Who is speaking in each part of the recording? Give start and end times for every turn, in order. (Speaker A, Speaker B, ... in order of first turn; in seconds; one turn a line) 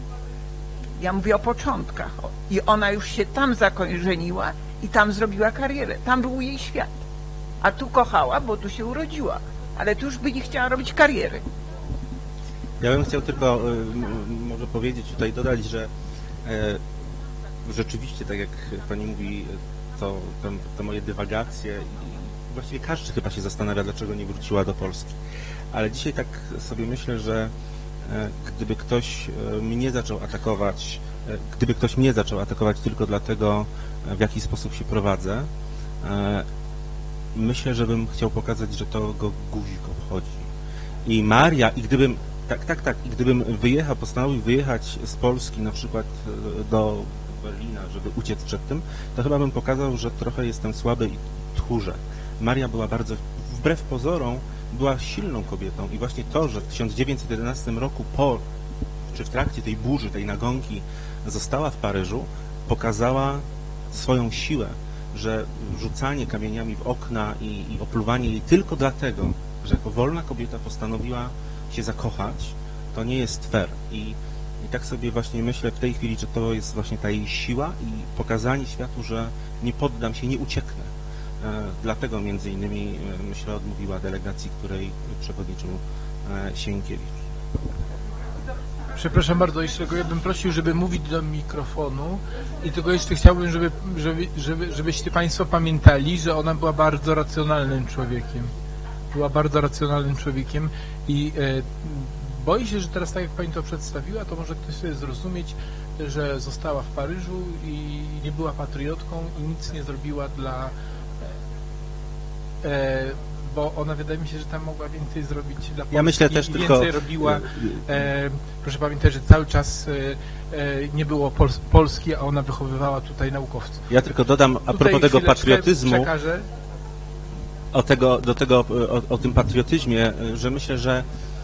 Speaker A: 1.0-7.0
Speaker A: 7.6-11.4
Speaker B: 12.8-15.9
Speaker B: 16.4-16.8
Speaker B: 17.6-25.2
Speaker B: 25.7-27.5
Speaker B: 28.1-35.5
Speaker B: 36.0-36.5
Speaker B: 37.3-40.4
Speaker B: 41.0-58.4
Speaker B: 59.1-87.1
Speaker C: 88.9-98.5
Speaker C: 99.1-110.7
Speaker C: 112.6-123.9
Speaker B: 115.9-117.8
Speaker B: 123.9-126.1
Speaker C: 124.7-126.5
Speaker B: 127.7-131.1